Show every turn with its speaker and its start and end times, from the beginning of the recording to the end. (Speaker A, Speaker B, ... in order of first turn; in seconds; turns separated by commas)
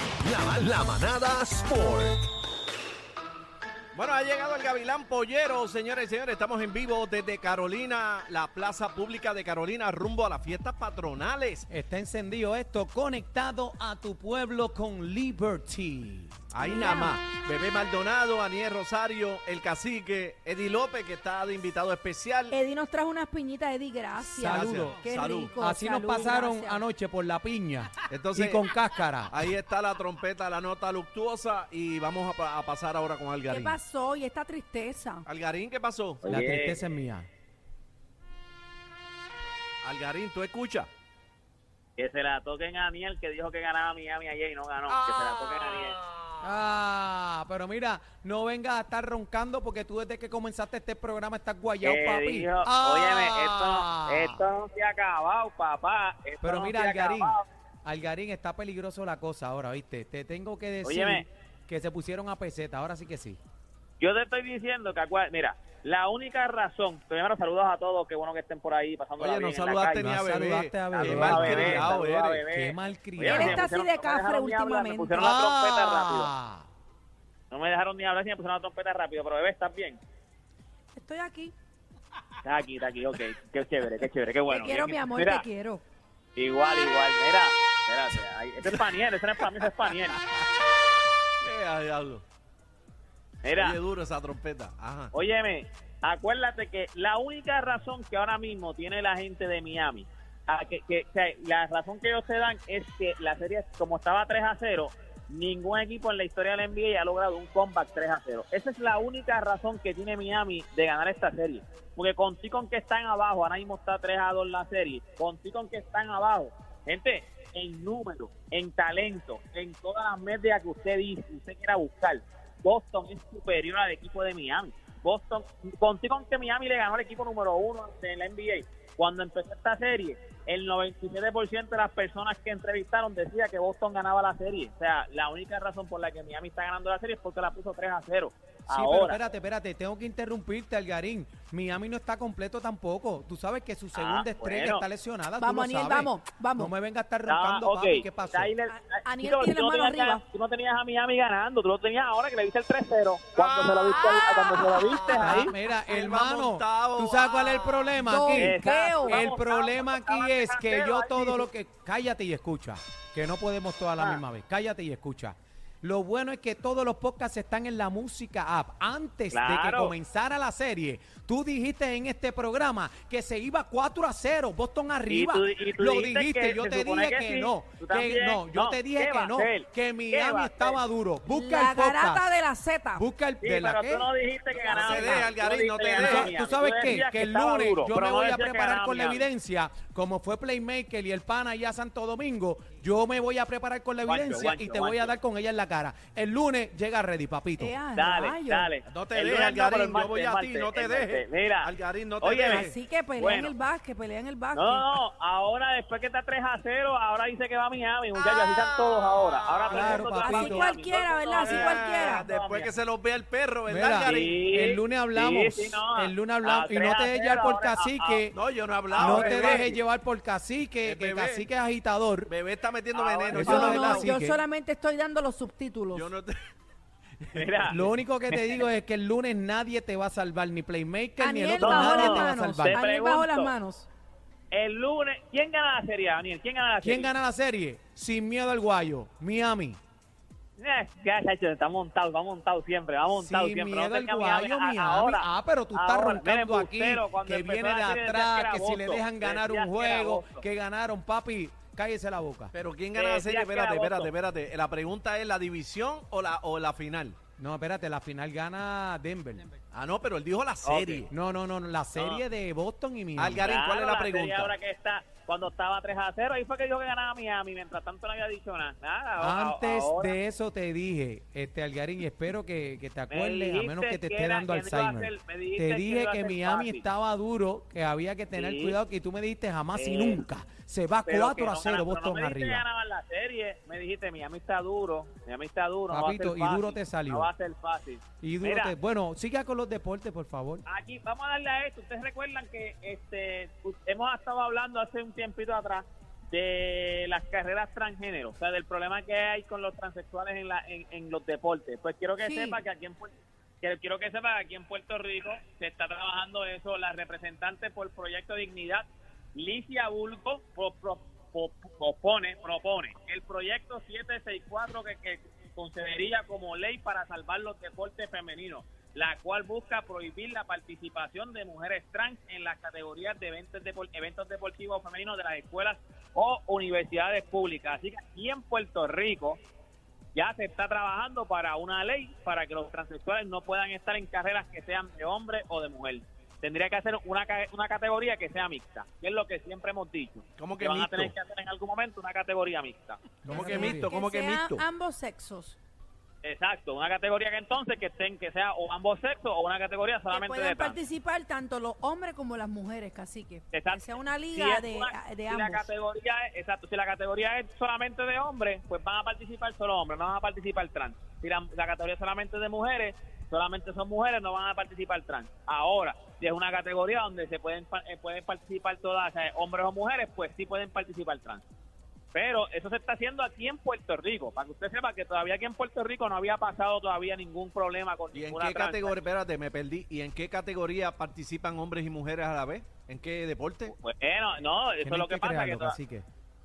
Speaker A: 0.2-2.2, Speaker B: 3.9-11.7, Speaker C: 11.7-16.4, Speaker B: 16.5-22.6, Speaker D: 16.6-17.1, Speaker D: 22.5-26.8, Speaker C: 24.3-25.0, Speaker B: 24.4-25.6, Speaker C: 25.5-29.3, Speaker B: 28.1-28.6, Speaker B: 29.3-33.8, Speaker D: 33.5-35.3, Speaker B: 35.3-36.2, Speaker E: 36.2-36.8, Speaker C: 36.3-37.3, Speaker B: 39.8-40.9, Speaker E: 42.0-46.0, Speaker C: 46.4-54.4, Speaker E: 51.8-57.5, Speaker C: 56.4-63.4, Speaker E: 60.8-61.3, Speaker E: 64.0-70.1, Speaker B: 69.2-72.5, Speaker C: 70.0-71.9, Speaker E: 70.9-76.3, Speaker C: 72.5-73.6, Speaker D: 73.2-75.3, Speaker C: 75.1-76.7, Speaker E: 77.5-80.0, Speaker D: 81.0-81.5, Speaker E: 82.4-85.5, Speaker D: 84.5-85.8, Speaker E: 86.4-90.2, Speaker B: 89.4-90.4, Speaker B: 91.4-92.2, Speaker E: 93.4-93.8, Speaker B: 93.5-95.1, Speaker E: 95.1-139.2, Speaker C: 138.7-148.5, Speaker E: 143.9-144.9, Speaker D: 145.4-146.7, Speaker E: 147.3-155.5, Speaker D: 148.7-150.2, Speaker B: 153.4-153.8, Speaker D: 153.8-155.0, Speaker B: 155.1-157.9, Speaker C: 155.1-182.3, Speaker D: 158.0-159.2, Speaker E: 158.3-161.5, Speaker E: 169.3-169.9, Speaker E: 175.1-180.8, Speaker D: 181.3-183.1, Speaker C: 183.0-184.1, Speaker E: 183.4-189.3, Speaker B: 184.5-186.3, Speaker C: 185.0-185.2, Speaker C: 186.0-197.8, Speaker E: 194.1-195.1, Speaker D: 197.6-198.7, Speaker E: 197.9-203.5, Speaker B: 198.8-202.7, Speaker D: 202.5-205.0, Speaker E: 204.5-212.7, Speaker B: 208.2-210.0, Speaker C: 209.7-210.7, Speaker D: 209.8-212.2, Speaker B: 211.4-214.3, Speaker C: 213.7-218.4, Speaker E: 214.1-218.2, Speaker B: 218.3-219.7, Speaker E: 218.9-219.8, Speaker C: 219.0-222.3, Speaker B: 220.8-221.5, Speaker B: 222.3-224.1, Speaker E: 222.9-224.1, Speaker C: 223.3-224.4, Speaker D: 223.4-226.1, Speaker B: 225.9-226.4, Speaker B: 227.3-227.8, Speaker E: 227.3-227.8, Speaker C: 227.7-232.8, Speaker E: 228.3-228.6, Speaker D: 231.2-233.9, Speaker E: 231.6-233.5, Speaker E: 234.5-237.1, Speaker C: 236.8-239.8, Speaker E: 240.6-250.4, Speaker C: 243.1-252.5, Speaker B: 252.5-257.2, Speaker E: 252.9-254.1, Speaker C: 257.4-259.4, Speaker B: 259.7-261.1, Speaker E: 260.6-261.1, Speaker C: 261.1-263.5, Speaker E: 262.0-262.2, Speaker B: 263.2-264.5, Speaker E: 263.4-270.1, Speaker C: 269.2-282.6, Speaker E: 273.1-276.9, Speaker E: 278.3-278.8, Speaker E: 279.7-280.2, Speaker E: 281.1-288.7, Speaker C: 285.9-287.3, Speaker C: 288.2-290.6, Speaker E: 290.7-329.4, Speaker D: 302.2-302.6, Speaker E: 330.1-343.0, Speaker B: 340.4-341.1, Speaker C: 343.2-343.9, Speaker B: 343.3-344.6, Speaker D: 343.3-345.6, Speaker E: 346.2-350.8, Speaker D: 350.1-355.7, Speaker E: 353.5-371.4, Speaker E: 372.1-379.0, Speaker B: 378.1-383.8, Speaker E: 383.7-385.8, Speaker C: 384.8-386.1